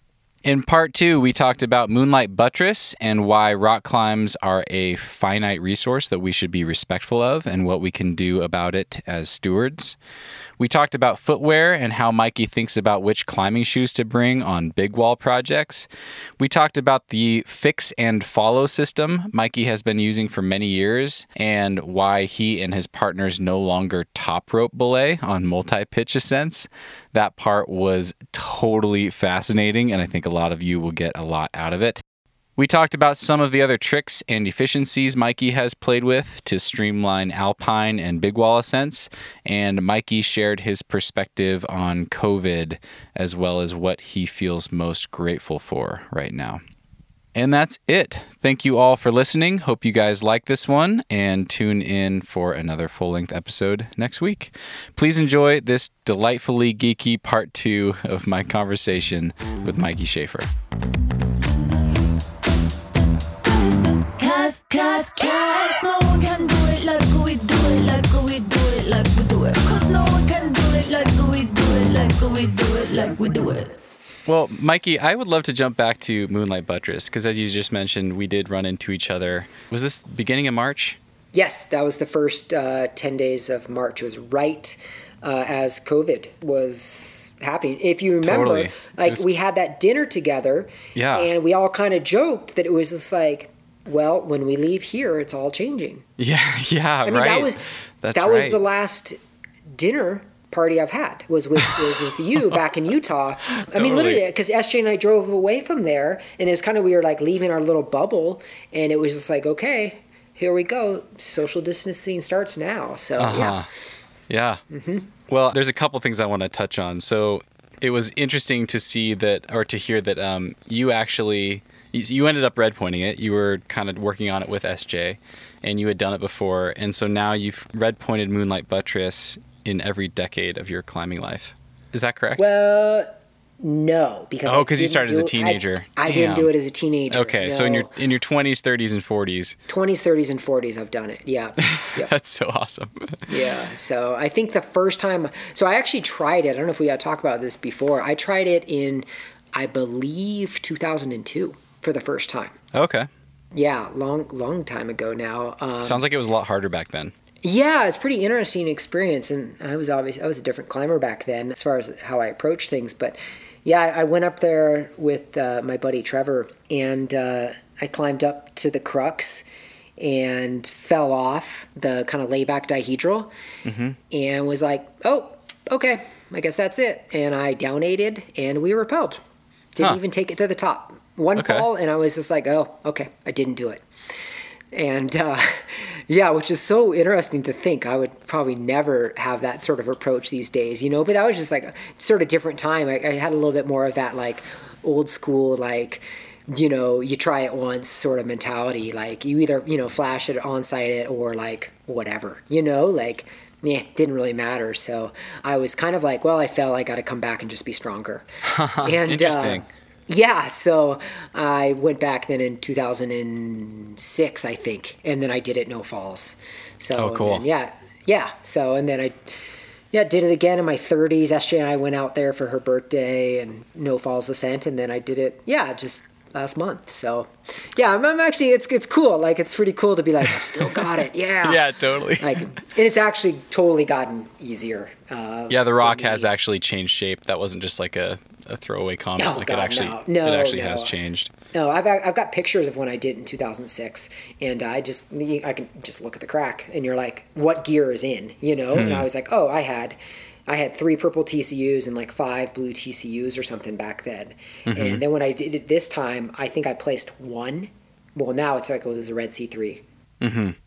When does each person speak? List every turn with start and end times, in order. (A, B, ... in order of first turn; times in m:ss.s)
0:00.4-0:10.0 A
0:10.6-0:15.9 A
0:16.4-0:32.0 A
0:32.6-0:46.6 A
0:47.4-1:00.5 A
1:04.2-1:13.7 B
1:14.3-1:21.0 A
1:21.3-1:36.1 C
1:28.2-1:29.2 A
1:31.0-1:31.3 A
1:36.2-1:38.6 A
1:37.0-1:37.6 C
1:38.1-1:39.2 C
1:39.7-1:53.6 C
1:43.5-1:44.2 A
1:53.2-1:53.7 A
1:54.3-1:54.6 A
1:54.7-1:55.1 C
1:55.3-2:12.5 A
2:12.4-2:18.0 C
2:14.5-2:16.5 A
2:17.1-2:19.6 A
2:19.7-2:22.1 C
2:21.6-2:23.3 A
2:23.3-2:32.6 C
2:32.7-2:33.1 A
2:33.5-2:36.1 C
2:35.8-2:37.1 A
2:37.4-2:49.5 C
2:50.0-2:53.3 C
2:53.6-2:54.0 A
2:54.1-2:59.2 C
2:59.8-3:03.8 C
3:01.4-3:01.7 A
3:04.7-3:28.3 C
3:28.5-3:29.7 A
3:28.8-3:39.2 C
3:37.0-3:37.4 A
3:39.9-3:56.3 C
3:51.4-3:52.5 A
3:55.5-4:01.3 A
3:59.2-4:01.0 C
4:01.5-4:19.8 C
4:08.7-4:09.1 A
4:14.7-4:15.0 A
4:20.2-4:20.6 A